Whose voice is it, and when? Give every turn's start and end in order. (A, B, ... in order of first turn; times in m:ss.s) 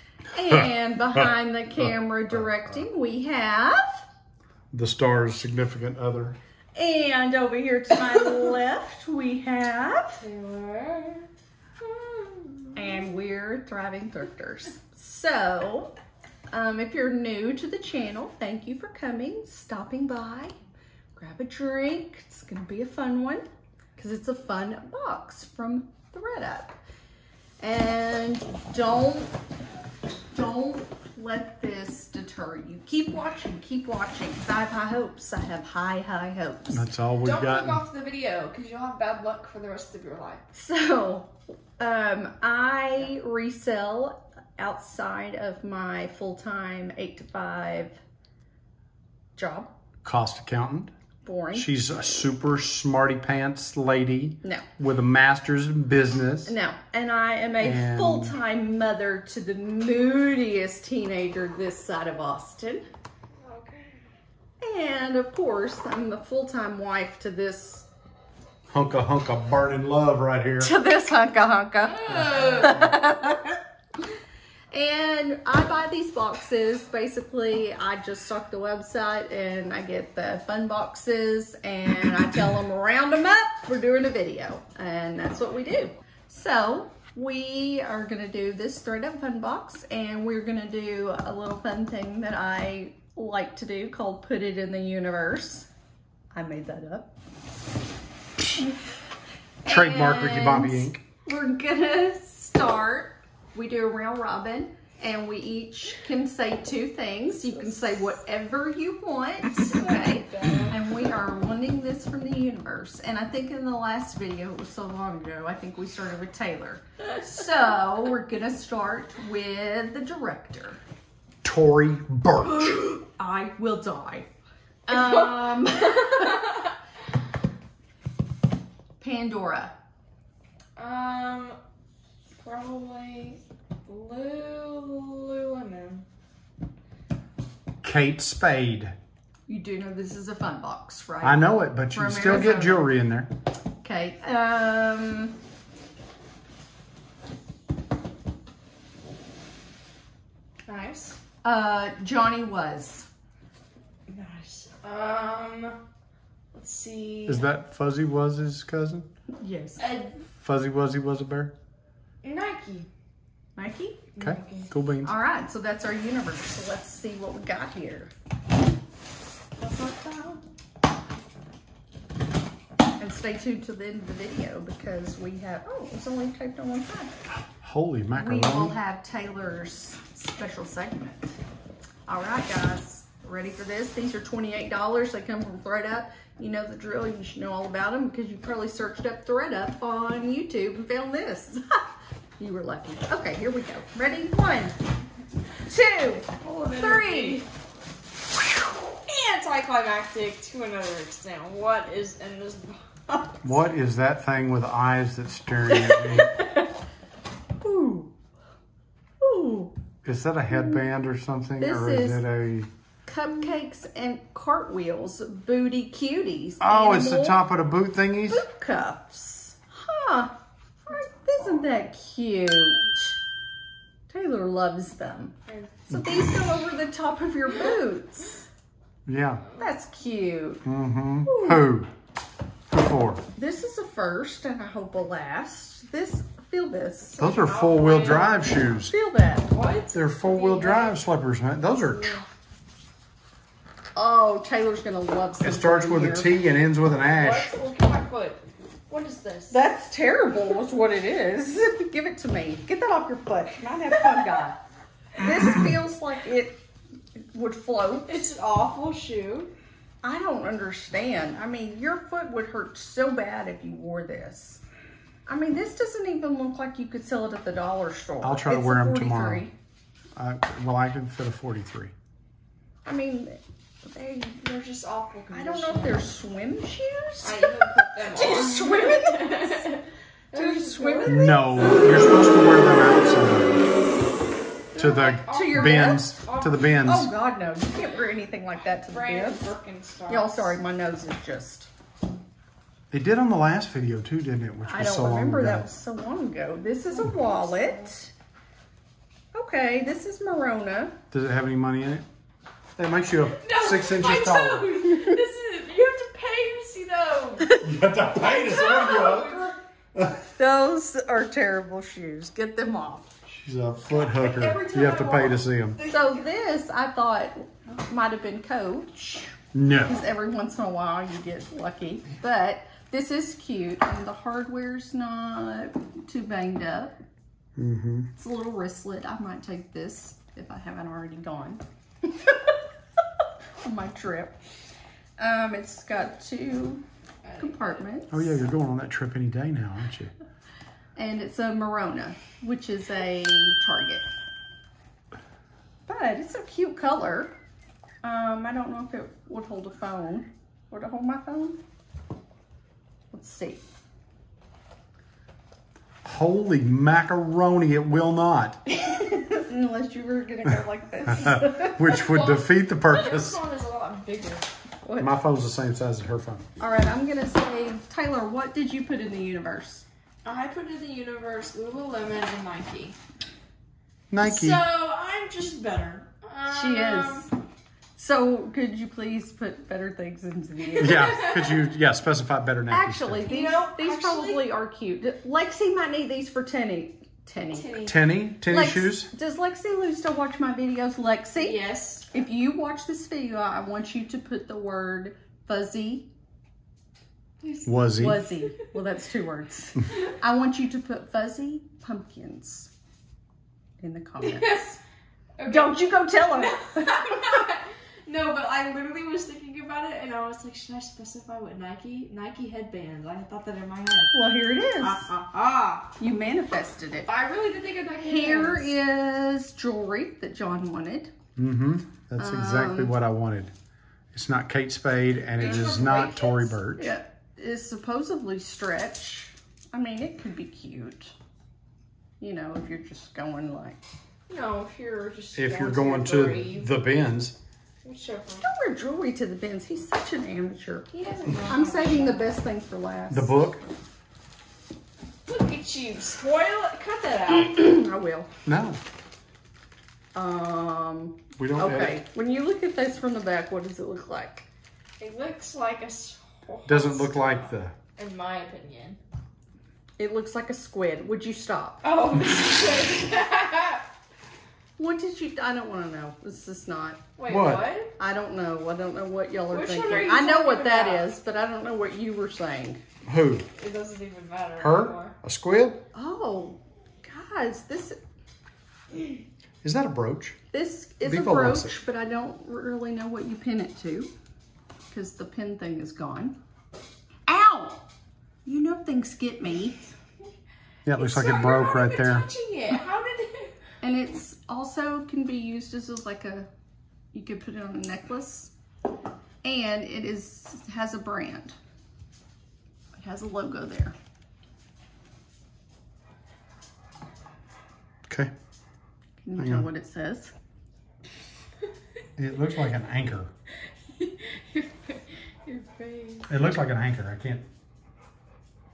0:00.3-0:04.0 A
0:04.7-0:06.4 B
0:06.7-0:10.2 A
0:10.2-0:11.3 C
0:11.8-0:13.0 C
0:12.7-0:15.9 A
0:16.5-0:20.5 A
0:21.2-0:26.8 A
0:27.6-0:29.4 A
0:30.3-0:36.9 A
0:36.7-0:37.8 B
0:37.2-0:40.4 C
0:40.5-0:48.0 A
0:49.4-0:49.7 A
0:50.0-0:50.9 B
0:51.2-0:52.3 A
0:51.5-0:56.5 B
0:56.4-1:02.8 A
0:57.6-0:58.4 B
1:03.4-1:04.0 C
1:04.6-1:07.9 A
1:08.7-1:10.7 B
1:10.6-1:13.6 A
1:11.8-1:12.9 C
1:12.6-1:12.9 B
1:14.7-1:35.7 A
1:36.3-1:37.1 A
1:39.6-2:00.8 A
1:39.6-1:41.0 B
1:47.6-1:48.0 C
1:49.5-1:50.8 C
2:01.4-2:02.7 B
2:02.8-2:04.3 A
2:04.9-2:06.7 A
2:04.9-2:06.6 C
2:09.0-2:09.7 A
2:10.8-2:11.6 C
2:12.4-2:16.0 C
2:17.8-2:18.9 B
2:19.5-2:22.9 A
2:21.2-2:23.3 B
2:23.8-2:25.4 A
2:30.6-2:31.2 C
2:31.4-2:33.1 A
2:34.1-2:35.8 C
2:36.5-2:37.4 C
2:37.3-2:39.1 B
2:39.4-2:39.9 A
2:39.8-2:40.2 C
2:40.4-2:41.5 B
2:42.2-2:42.9 C
2:43.6-2:44.0 A
2:44.2-2:44.7 C
2:44.2-2:45.1 B
2:45.0-2:48.1 A
2:49.6-2:50.4 C
2:49.6-2:50.1 A
2:53.0-2:57.2 A
2:57.6-2:58.8 B
2:58.1-3:01.4 A
3:02.1-3:11.8 A
3:12.4-3:14.7 A
3:15.6-3:17.4 A
3:16.4-3:17.5 C
3:19.0-3:22.8 C
3:23.4-3:26.3 B
3:25.7-3:26.7 A
3:27.6-3:28.1 A
3:29.2-3:29.7 A
3:30.0-3:32.7 B
3:31.6-3:32.2 A
3:33.0-3:37.4 A
3:36.6-3:38.4 B
3:38.3-3:43.1 A
3:44.1-3:45.3 A
3:45.5-3:45.7 C
3:45.9-3:48.5 A
3:45.9-3:46.6 B
3:49.0-3:49.4 B
3:49.6-3:50.6 A
3:50.6-3:51.9 B
3:51.2-3:51.6 A
3:52.7-3:53.2 B
3:53.4-3:57.2 A
3:57.2-3:58.5 C
3:57.2-3:58.9 B
3:58.4-3:59.5 A
3:59.5-4:01.0 C
3:59.9-4:02.2 B
4:01.7-4:02.2 C
4:03.9-4:06.3 A
4:05.4-4:07.5 B
4:07.0-4:09.6 C
4:09.5-4:14.6 A
4:15.2-4:16.6 A
4:17.2-4:18.2 A
4:18.1-4:19.5 C
4:20.0-4:24.6 A
4:25.2-4:29.5 A
4:28.2-4:29.4 B
4:30.2-4:31.9 B
4:32.8-4:34.5 A
4:34.4-4:36.0 C
4:35.3-4:39.8 A
4:37.2-4:41.4 C
4:40.3-4:41.8 A
4:41.0-4:43.6 B
4:44.7-4:46.7 C
4:44.8-4:47.1 B
4:45.3-4:46.1 A
4:46.8-4:49.5 A
4:48.7-4:50.6 C
4:50.1-4:51.7 A
4:52.9-4:55.7 B
4:54.6-4:58.1 A
4:56.8-4:57.9 C
4:59.3-5:00.9 A
5:01.1-5:02.0 B
5:02.8-5:04.8 B
5:03.4-5:07.6 C
5:07.6-5:10.2 B
5:08.2-5:09.6 C
5:08.7-5:09.1 A
5:10.2-5:13.1 A
5:13.3-5:15.8 B
5:13.9-5:16.2 C
5:15.8-5:27.0 A
5:19.5-5:20.0 B
5:27.6-5:28.1 B
5:28.2-5:32.6 A
5:33.6-5:34.4 A
5:35.2-5:36.8 A
5:37.2-5:37.8 C
5:37.4-5:38.4 A
5:38.1-5:40.1 B
5:41.0-5:44.1 A
5:45.9-5:47.3 A
5:48.0-5:51.6 A
5:53.1-5:53.6 A
5:56.0-5:58.6 B
5:58.7-6:01.9 A
6:01.2-6:03.4 B
6:01.9-6:04.4 C
6:04.8-6:05.1 A
6:05.0-6:06.4 B
6:06.6-6:09.8 A
6:10.2-6:13.0 C
6:14.1-6:14.6 B
6:14.2-6:17.3 C
6:16.5-6:17.3 A
6:18.0-6:21.1 A
6:20.7-6:21.7 C
6:20.8-6:23.3 B
6:22.7-6:27.8 A
6:23.2-6:24.5 C
6:27.4-6:28.0 C
6:27.8-6:29.1 B
6:28.4-6:36.1 A
6:31.4-6:32.1 C
6:37.4-6:37.8 C
6:37.6-6:38.3 B
6:37.9-6:42.7 A
6:43.8-6:44.8 A
6:44.2-6:44.8 C
6:45.4-6:54.2 C
6:45.4-6:47.2 A
6:54.1-6:55.1 A
6:54.8-6:56.0 C
6:56.0-6:57.1 A
6:57.0-6:58.7 C
6:58.0-7:01.1 A
7:01.4-7:03.5 B
7:02.2-7:02.9 A
7:04.1-7:06.9 B
7:05.4-7:06.6 C
7:06.8-7:11.1 A
7:12.2-7:13.8 A
7:14.3-7:16.7 C
7:15.3-7:17.4 B
7:17.8-7:18.4 C
7:18.4-7:20.9 A
7:20.9-7:22.3 C
7:21.4-7:23.3 A
7:23.1-7:23.6 B
7:25.3-7:27.6 C
7:27.4-7:28.3 A
7:28.4-7:28.8 B
7:30.1-7:34.5 A
7:31.4-7:32.0 B
7:35.0-7:39.0 C
7:36.6-7:37.7 B
7:40.0-7:41.8 A
7:41.8-7:43.8 C
7:44.8-7:47.0 A
7:47.2-7:47.9 C
7:47.3-7:47.7 B
7:48.0-7:52.8 A
7:49.5-7:51.1 C
7:53.0-7:53.4 B
7:53.6-7:55.2 C
7:54.6-7:55.8 B
7:55.9-7:58.0 A
7:59.6-8:00.4 B
8:00.5-8:04.1 A
8:01.0-8:01.7 B
8:04.9-8:06.4 A
8:07.3-8:07.8 A
8:08.4-8:09.8 A
8:10.8-8:12.3 B
8:10.9-8:13.5 C
8:13.8-8:16.5 A
8:17.1-8:18.5 A
8:19.4-8:21.6 A
8:22.9-8:23.9 A
8:29.2-8:30.3 A
8:29.4-8:29.6 B
8:32.2-8:33.3 B
8:34.0-8:36.3 C
8:36.3-8:37.4 B